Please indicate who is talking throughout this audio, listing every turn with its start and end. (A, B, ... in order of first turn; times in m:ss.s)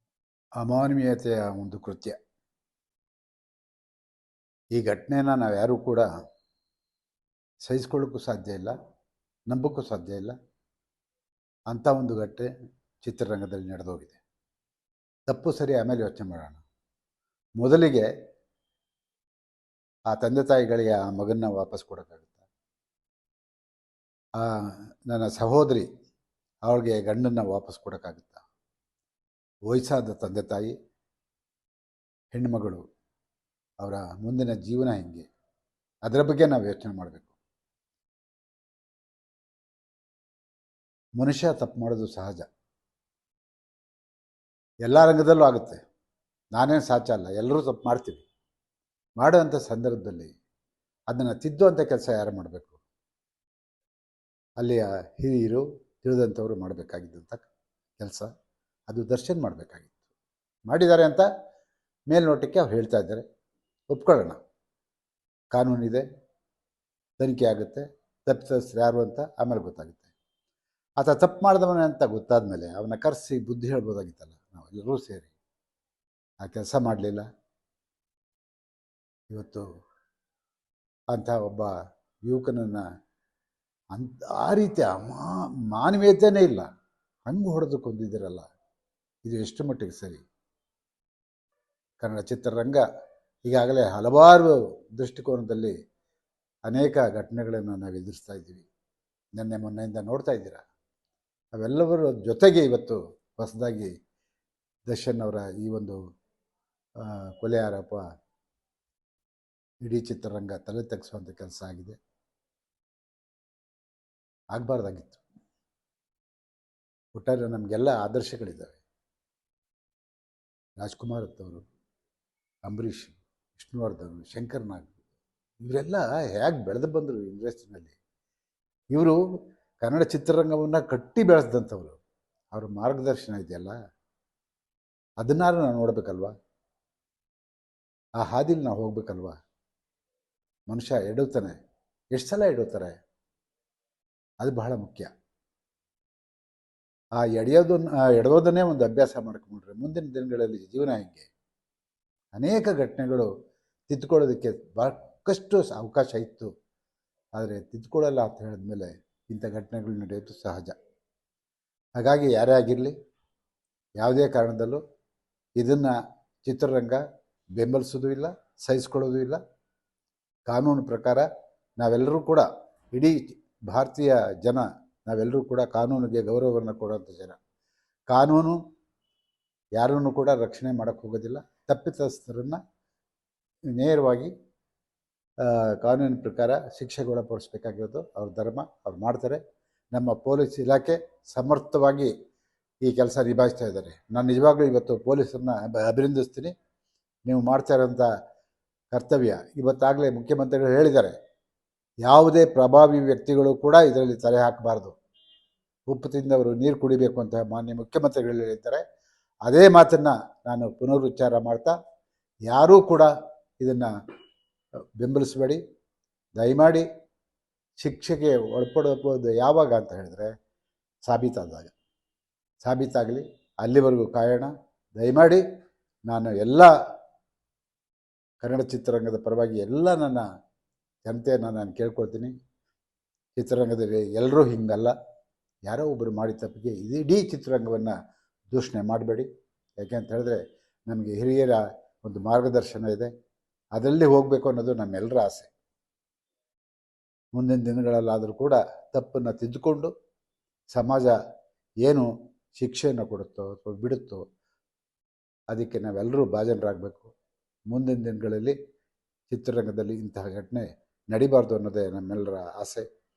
0:00.6-0:02.2 A
0:04.7-0:06.1 A
0:07.6-0:08.8 A
0:09.5-0:10.4 A
0:11.7-0:12.5 A
0:13.0-0:14.2 A
0:15.3-0:16.6 A
0:17.6-0:18.1 A
0:20.1-0:22.4 A
0:25.1-0:25.9 A
0:26.7-0:28.4 A
0:29.7-0:30.8 A
0:32.3-0:32.8 A
0:33.8-0:35.3 A
0:36.1-0:37.3 A
0:41.2-0:42.5 A
0:44.8-0:45.8 A
0:46.6-0:48.3 A
0:49.2-0:50.3 A
0:51.1-0:52.8 A
0:54.6-0:58.3 A
0:58.9-1:00.0 A
1:00.7-1:01.2 A
1:02.1-1:03.2 A
1:03.9-1:04.4 A
1:05.5-1:06.0 A
1:07.2-1:10.1 A
1:11.0-1:15.3 A
1:16.4-1:17.2 A
1:19.3-1:19.6 A
1:21.1-1:21.7 A
1:22.2-1:22.8 A
1:23.9-1:26.7 A
1:27.3-1:28.5 A
1:29.2-1:30.2 A
1:32.0-1:32.8 A
1:33.5-1:35.7 A
1:36.7-1:38.7 A
1:39.4-1:40.6 A
1:41.6-1:43.9 A
1:44.9-1:46.0 A
1:47.0-1:48.0 A
1:49.8-1:52.0 A
1:54.5-1:55.2 A
1:57.1-1:58.8 A
2:00.8-2:01.6 A
2:02.7-2:04.9 A
2:05.6-2:08.0 A
2:08.9-2:09.2 A
2:09.8-2:12.0 A
2:12.5-2:13.7 A
2:15.2-2:16.3 A
2:18.2-2:19.3 A
2:20.7-2:21.6 A
2:22.1-2:23.0 A
2:24.4-2:25.1 A
2:27.2-2:31.3 A
2:32.3-2:33.3 A
2:33.9-2:36.5 A
2:37.4-2:40.7 A
2:42.0-2:42.9 A
2:44.0-2:44.8 A
2:45.6-2:47.0 A
2:47.6-2:49.4 A
2:50.5-2:51.2 A
2:51.8-2:57.4 A
2:58.1-2:58.6 A
2:59.8-3:02.6 A
3:03.8-3:04.3 A
3:05.4-3:09.4 A
3:09.9-3:12.1 A
3:12.8-3:16.5 A
3:17.3-3:18.1 A
3:18.9-3:21.2 A
3:22.0-3:24.9 A
3:25.9-3:28.8 A
3:29.5-3:31.7 A
3:32.5-3:33.9 A
3:35.0-3:35.6 A
3:36.4-3:36.8 A
3:37.8-3:40.3 A
3:41.1-3:41.7 A
3:42.6-3:45.4 A
3:46.1-3:46.7 A
3:48.4-3:50.3 A
3:51.0-3:52.3 A
3:53.4-3:54.9 A
3:55.7-3:57.9 A
3:58.5-3:59.3 A
3:59.8-4:03.1 A
4:03.8-4:05.5 A
4:07.3-4:09.9 A
4:10.7-4:11.1 A
4:11.8-4:14.2 A
4:15.5-4:17.1 A
4:17.7-4:18.6 A
4:19.3-4:22.8 A